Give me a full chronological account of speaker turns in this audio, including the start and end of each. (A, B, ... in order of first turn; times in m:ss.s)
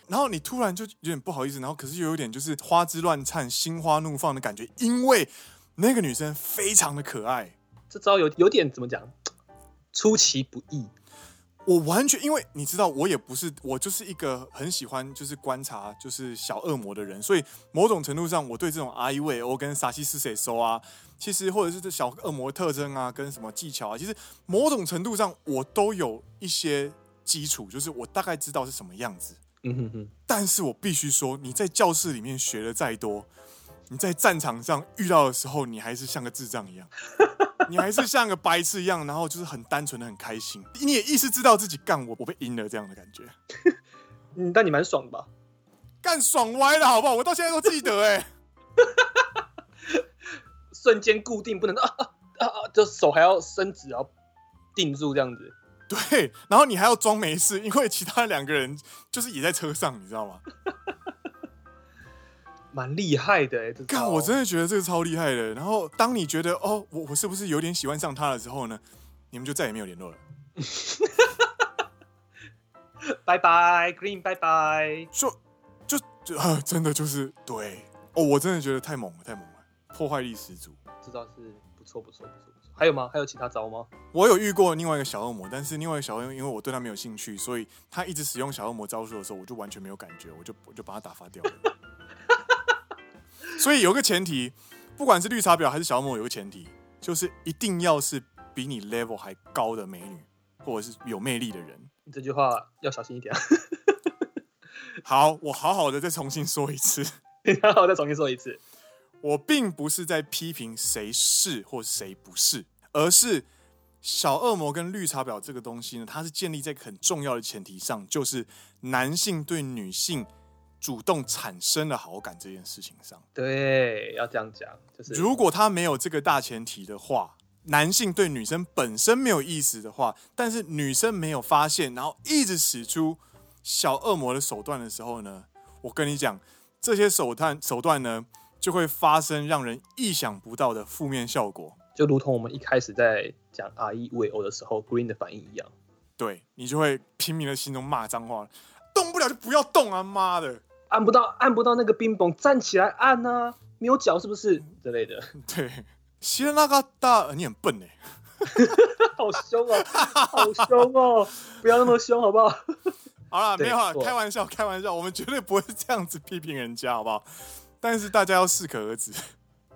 0:00.1-0:07.6 A
0:07.9-0:09.2 B
0:09.9-0:10.9 B
0:11.7-0:29.4 A
0:29.6-0:30.1 B
0:30.3-0:33.3 A
0:33.9-0:36.9 A
0:37.2-0:37.7 B
0:37.7-0:43.3 A
0:44.4-0:45.3 B
0:46.0-0:48.3 A
0:48.8-0:49.3 B
0:50.7-0:54.1 B
0:54.8-0:55.6 B
0:55.9-1:00.4 A
1:02.7-1:04.3 B
1:03.9-1:10.2 A
1:10.6-1:11.5 B
1:13.1-1:15.1 B
1:15.9-1:20.8 A
1:21.0-1:23.9 B
1:24.1-1:31.7 A
1:33.5-1:41.9 A
1:42.1-1:44.1 B
1:45.0-1:47.1 A
1:47.4-1:48.6 B
1:49.2-1:53.5 A
1:54.0-2:00.3 A
2:00.8-2:03.2 A
2:03.4-2:05.3 B
2:05.1-2:21.8 A
2:22.0-2:25.7 B
2:26.2-2:30.6 A
2:30.9-2:35.3 B
2:35.4-2:38.0 A
2:38.5-2:42.6 B
2:39.8-2:40.8 A
2:43.3-2:47.3 A
2:43.6-2:44.1 B
2:47.8-2:49.2 A